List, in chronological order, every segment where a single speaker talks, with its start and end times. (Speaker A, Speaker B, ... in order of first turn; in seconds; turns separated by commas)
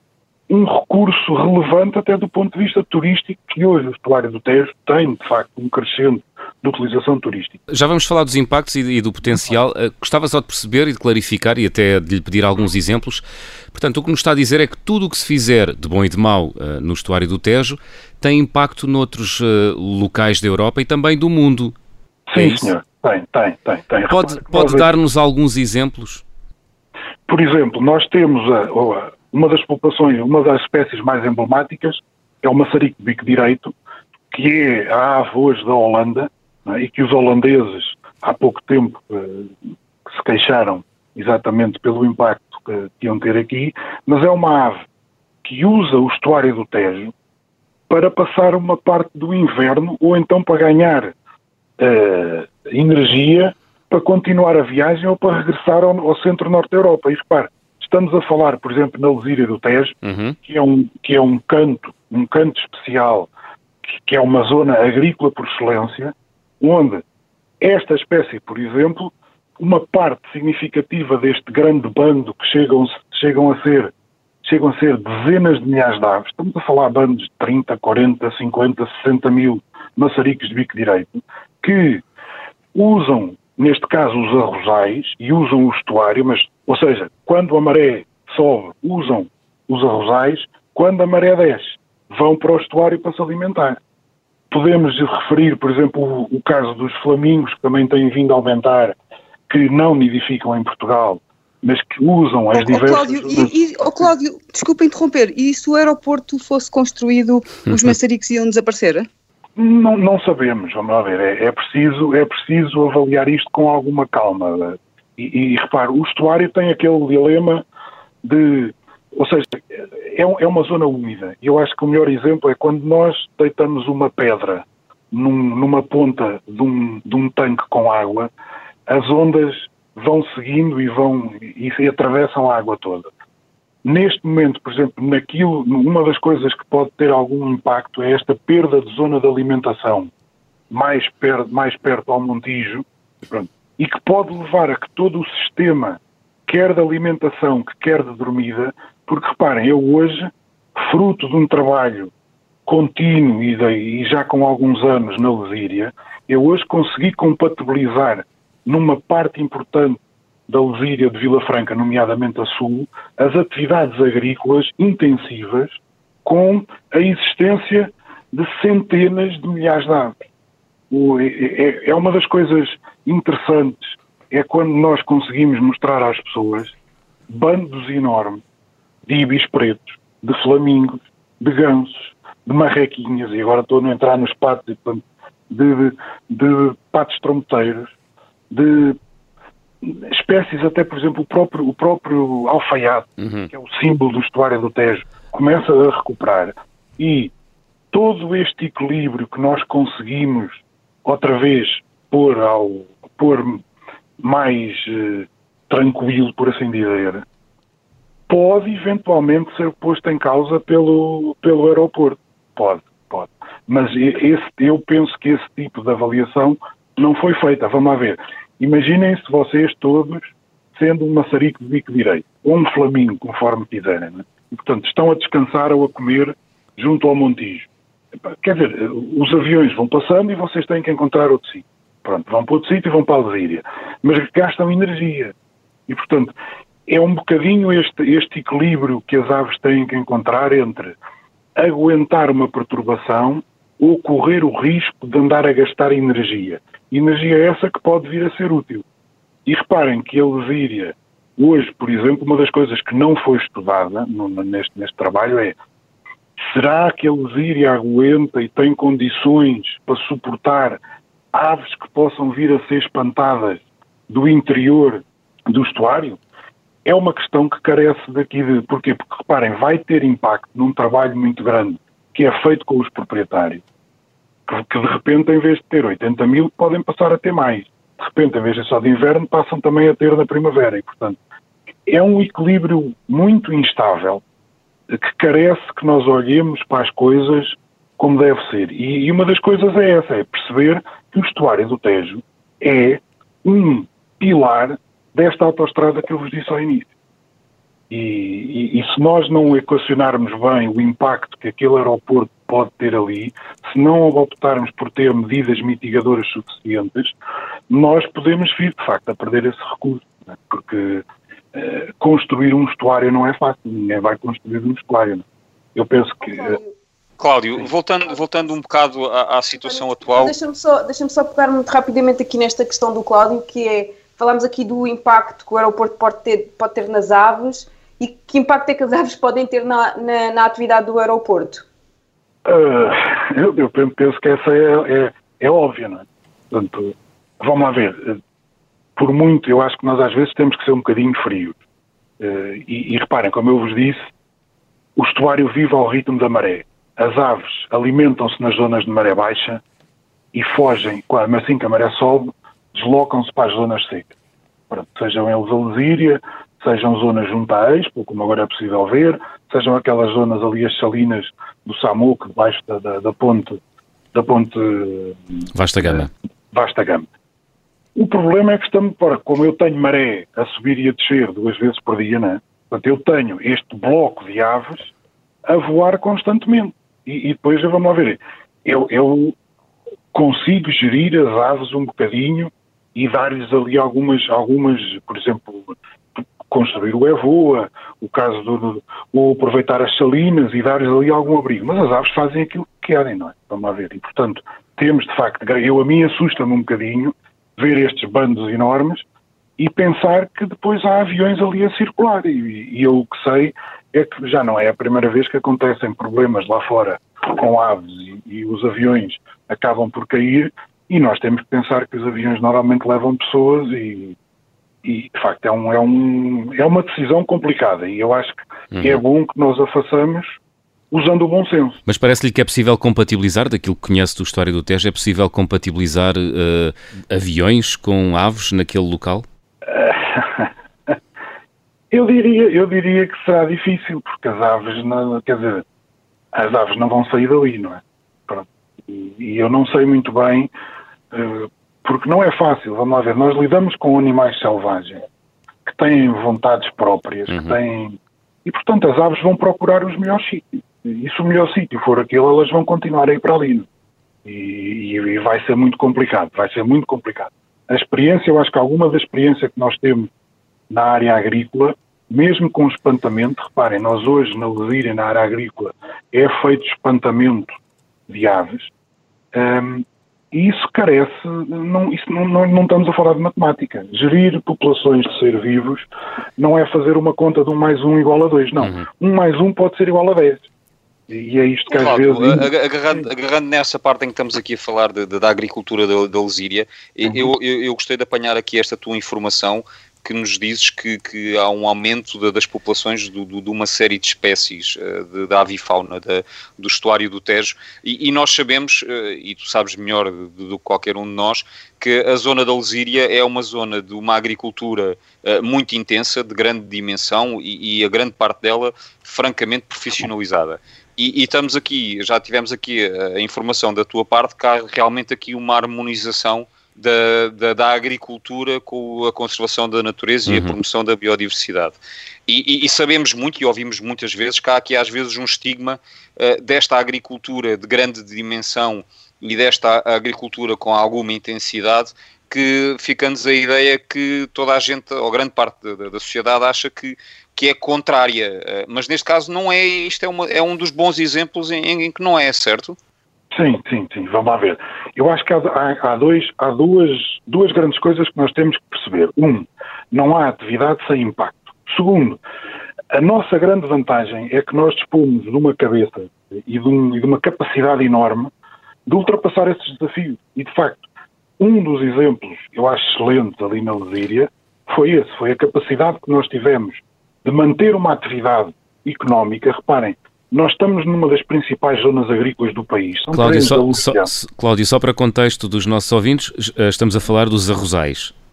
Speaker A: 0.5-7.6, Speaker B: 7.7-21.7, Speaker A: 22.3-24.9, Speaker B: 22.4-22.7, Speaker B: 24.1-26.2, Speaker A: 27.3-33.7, Speaker A: 34.3-39.5, Speaker A: 40.1-44.8, Speaker A: 45.4-47.1, Speaker A: 47.9-51.1, Speaker A: 51.8-63.3, Speaker B: 60.0-60.4, Speaker A: 63.9-67.0, Speaker A: 67.6-73.9, Speaker A: 74.4-82.0, Speaker A: 82.7-93.8, Speaker A: 94.5-99.0, Speaker A: 99.5-103.5, Speaker C: 102.5-109.1, Speaker A: 109.5-117.6, Speaker A: 118.2-128.3, Speaker A: 128.9-133.1, Speaker A: 133.8-140.1, Speaker A: 140.7-152.1, Speaker A: 152.7-170.2, Speaker A: 170.9-176.7, Speaker A: 177.3-178.4, Speaker A: 179.1-187.9, Speaker A: 188.5-189.0, Speaker A: 189.8-197.3, Speaker B: 193.2-193.5, Speaker A: 197.9-203.6, Speaker A: 204.2-207.2, Speaker A: 208.3-227.7, Speaker A: 228.2-235.3, Speaker A: 235.9-236.3, Speaker A: 236.9-240.9, Speaker A: 241.6-248.8, Speaker A: 249.4-255.5, Speaker A: 256.4-260.8, Speaker A: 261.3-266.2, Speaker A: 266.8-273.6, Speaker A: 274.5-281.2, Speaker A: 281.9-284.2, Speaker A: 284.9-296.9, Speaker A: 297.9-307.1, Speaker A: 307.7-316.6, Speaker D: 316.2-316.7, Speaker E: 317.2-320.3, Speaker D: 318.1-318.5, Speaker D: 319.5-331.6, Speaker A: 332.4-338.2, Speaker A: 338.9-341.6, Speaker A: 342.2-344.0, Speaker A: 344.9-349.6, Speaker A: 350.3-354.1, Speaker A: 354.7-363.6, Speaker A: 364.1-365.2, Speaker B: 365.5-366.1, Speaker A: 365.8-367.1, Speaker A: 367.9-374.9, Speaker A: 375.4-379.3, Speaker A: 380.1-399.0, Speaker A: 399.6-414.1, Speaker A: 414.8-420.4, Speaker B: 418.7-419.0, Speaker A: 420.9-421.8, Speaker B: 421.9-429.2, Speaker A: 429.7-430.9, Speaker A: 431.9-435.6, Speaker A: 436.3-440.5, Speaker A: 441.1-445.0, Speaker A: 445.6-453.7, Speaker B: 447.3-447.6, Speaker A: 454.2-460.1, Speaker A: 460.7-467.6, Speaker A: 468.1-468.7, Speaker A: 469.3-475.9, Speaker A: 476.4-480.4, Speaker B: 478.6-478.8, Speaker A: 481.1-483.0, Speaker E: 481.7-542.8, Speaker B: 520.3-520.5, Speaker A: 543.3-552.2, Speaker A: 552.9-558.3, Speaker A: 558.9-560.9, Speaker A: 561.4-574.1, Speaker B: 573.1-578.1